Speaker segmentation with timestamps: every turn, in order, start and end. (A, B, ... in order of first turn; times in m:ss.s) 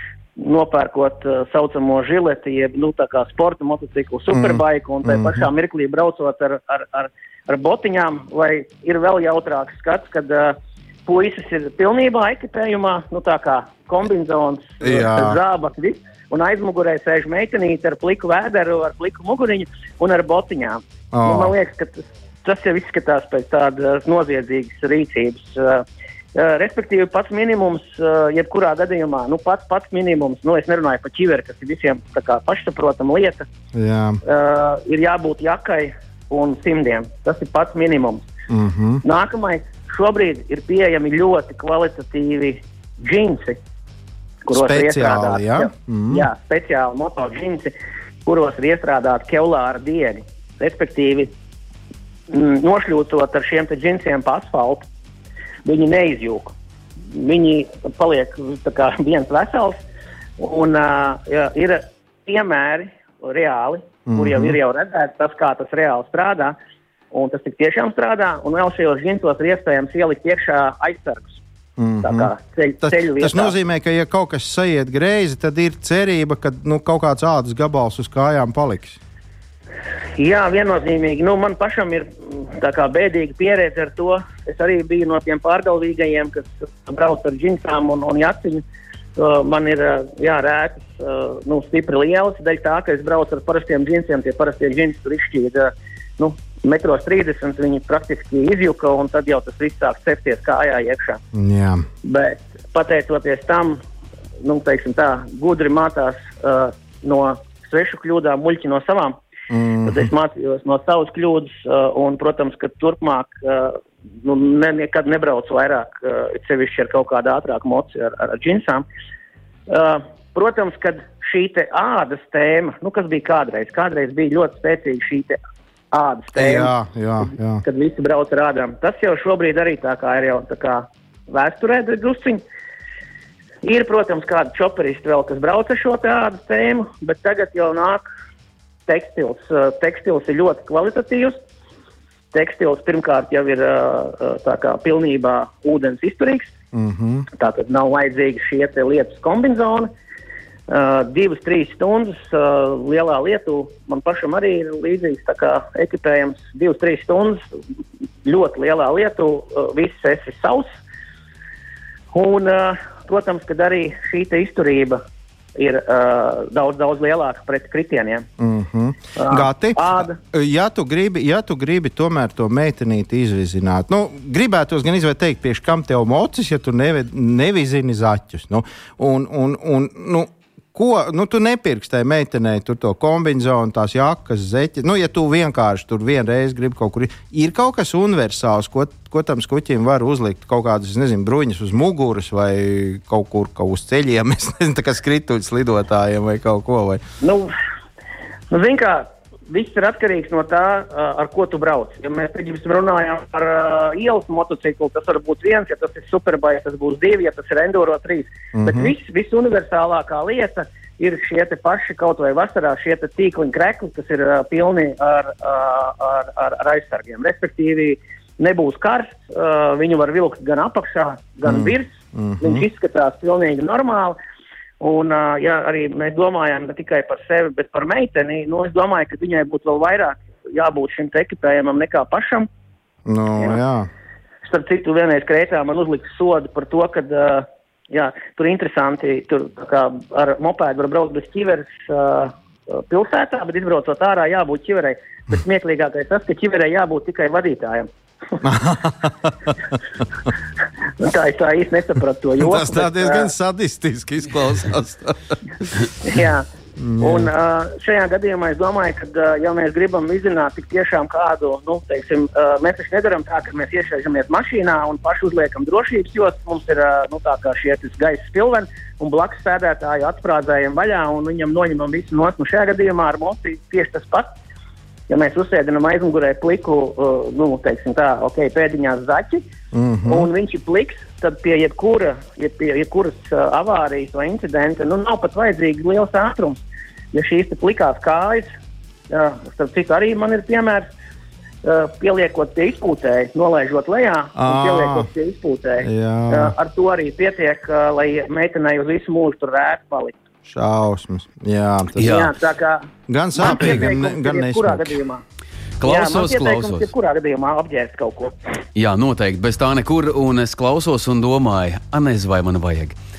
0:00.4-0:33.4 A
0:04.3-0:05.4 B
0:14.8-0:15.4 B
0:21.1-0:21.5 B
0:33.7-0:34.2 B
0:34.2-0:38.3 A
0:38.5-0:39.0 B
0:39.0-0:43.6 A
0:44.4-0:47.7 A
0:44.5-0:46.3 B
0:48.2-0:51.3 A
0:52.3-0:54.8 A
0:55.6-0:56.5 A
0:57.1-0:59.8 A
1:00.4-1:06.6 A
1:04.1-1:04.6 B
1:07.1-1:11.4 A
1:11.8-1:19.0 B
1:12.0-1:13.5 A
1:20.2-1:28.6 A
1:29.2-1:41.2 A
1:41.3-1:41.8 B
1:42.0-1:43.8 A
1:44.4-1:49.2 A
1:49.5-1:50.1 B
1:49.8-1:58.8 A
1:59.7-2:05.4 A
2:05.9-2:12.4 A
2:06.3-2:07.6 B
2:13.6-2:18.0 A
2:18.9-2:21.4 A
2:22.3-2:26.5 A
2:26.7-2:27.3 B
2:27.3-2:29.9 A
2:30.7-2:37.4 A
2:38.2-2:40.7 A
2:42.1-2:45.0 A
2:45.6-2:48.3 A
2:48.4-3:17.0 B
2:49.2-2:50.2 A
3:17.2-3:17.5 A
3:18.5-3:44.2 A
3:28.5-3:28.9 B
3:41.5-3:42.6 B
3:44.8-3:52.5 A
3:53.1-3:53.9 B
3:54.4-4:07.9 A
4:08.4-4:09.5 B
4:11.0-4:13.3 A
4:12.4-4:15.4 B
4:16.0-4:16.4 A
4:16.8-4:17.3 B
4:17.0-4:34.3 A
4:35.1-4:39.4 A
4:39.7-4:40.3 B
4:40.0-4:48.5 A
4:49.1-4:50.9 A
4:51.6-5:00.2 A
4:54.4-4:55.1 B
4:55.8-4:56.5 B
5:00.5-5:02.2 B
5:02.0-5:02.3 C
5:02.0-5:05.2 A
5:03.1-5:05.0 B
5:05.8-5:06.9 C
5:05.8-5:08.3 A
5:08.8-5:13.0 C